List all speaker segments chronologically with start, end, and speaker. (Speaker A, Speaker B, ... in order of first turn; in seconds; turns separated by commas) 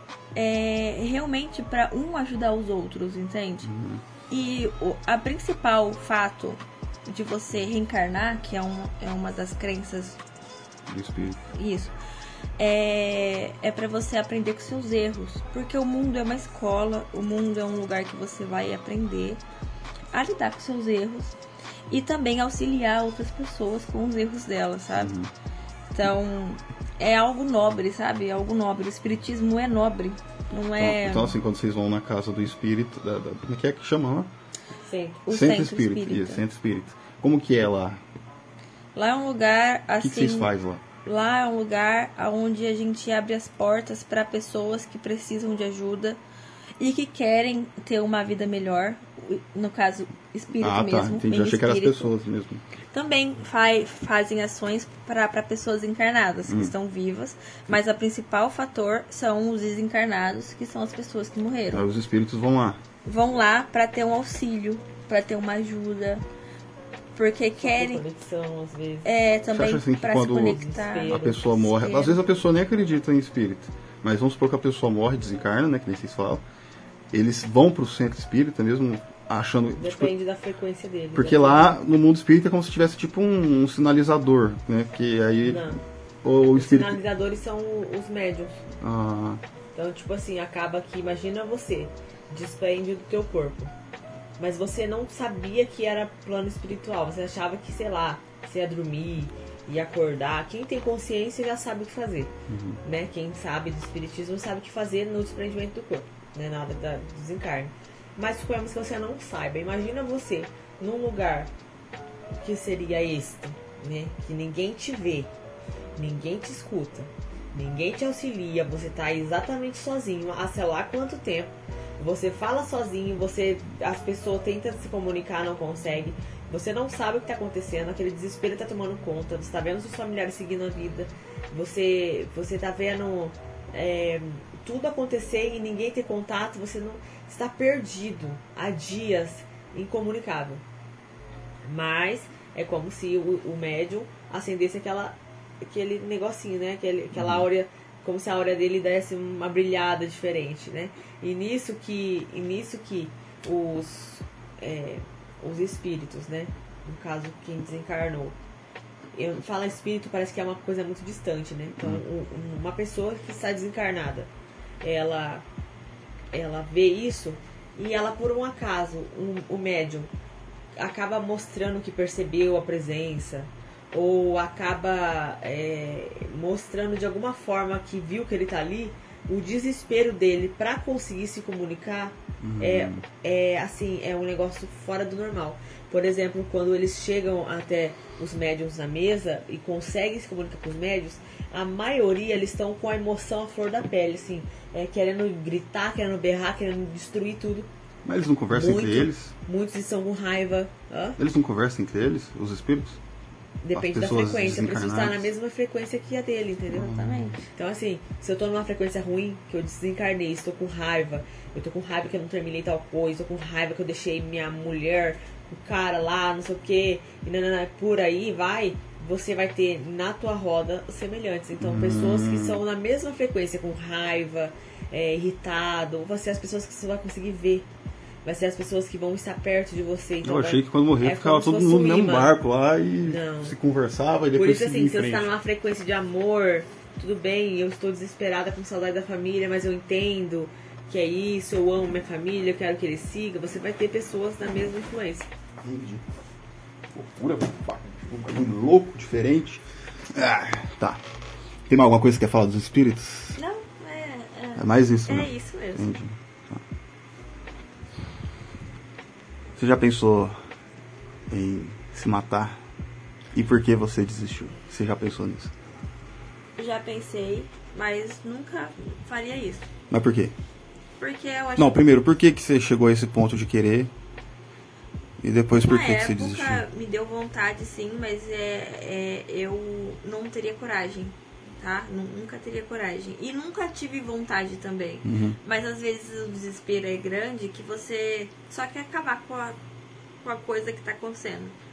Speaker A: 0.3-3.7, Speaker B: 3.6-4.0, Speaker A: 4.3-10.2, Speaker B: 10.9-11.4, Speaker A: 11.5-11.9, Speaker A: 12.6-19.4, Speaker A: 20.1-21.4, Speaker A: 21.9-25.1, Speaker B: 25.0-25.3, Speaker A: 25.9-31.4, Speaker B: 30.8-34.3, Speaker C: 34.9-35.2, Speaker A: 35.2-36.4, Speaker B: 35.3-38.0, Speaker A: 39.0-40.5, Speaker B: 40.0-40.8, Speaker A: 41.0-46.2, Speaker A: 46.8-52.1, Speaker B: 50.6-52.6, Speaker A: 52.9-61.9, Speaker B: 56.5-56.7, Speaker B: 61.7-62.8, Speaker A: 63.0-66.2, Speaker A: 67.2-68.0, Speaker C: 67.6-69.1, Speaker A: 69.0-72.2, Speaker B: 69.5-76.4, Speaker C: 70.3-71.4, Speaker B: 77.1-80.1, Speaker C: 79.8-81.8, Speaker B: 81.2-85.7, Speaker C: 85.4-85.8, Speaker B: 86.2-87.0, Speaker C: 86.5-88.6, Speaker B: 88.8-89.4, Speaker C: 89.8-93.7, Speaker C: 94.4-102.3, Speaker B: 102.5-102.8, Speaker C: 102.8-111.5, Speaker C: 112.3-115.3, Speaker C: 116.0-140.6, Speaker C: 141.7-158.4, Speaker B: 147.2-147.5, Speaker C: 159.1-164.3, Speaker B: 161.8-162.0, Speaker C: 164.8-165.5, Speaker C: 166.3-170.1, Speaker C: 170.8-197.7, Speaker B: 182.4-183.0, Speaker B: 198.1-199.3, Speaker C: 198.5-201.2, Speaker B: 201.2-203.0, Speaker C: 203.6-227.7, Speaker B: 203.7-205.3, Speaker B: 206.7-207.4, Speaker A: 206.9-207.5, Speaker B: 221.6-222.6, Speaker C: 228.2-232.4, Speaker B: 230.2-235.3, Speaker C: 233.0-233.6, Speaker C: 234.3-245.3, Speaker B: 245.6-246.0, Speaker B: 246.9-251.0, Speaker B: 251.7-253.4, Speaker A: 253.4-255.9, Speaker B: 254.6-256.6, Speaker B: 259.6-260.4, Speaker B: 261.3-262.6, Speaker B: 263.3-265.5, Speaker A: 266.6-269.7, Speaker B: 269.9-270.4, Speaker A: 271.0-271.8, Speaker B: 271.6-273.9, Speaker B: 275.2-276.6, Speaker A: 275.6-289.6, Speaker B: 285.0-285.4, Speaker A: 290.2-291.6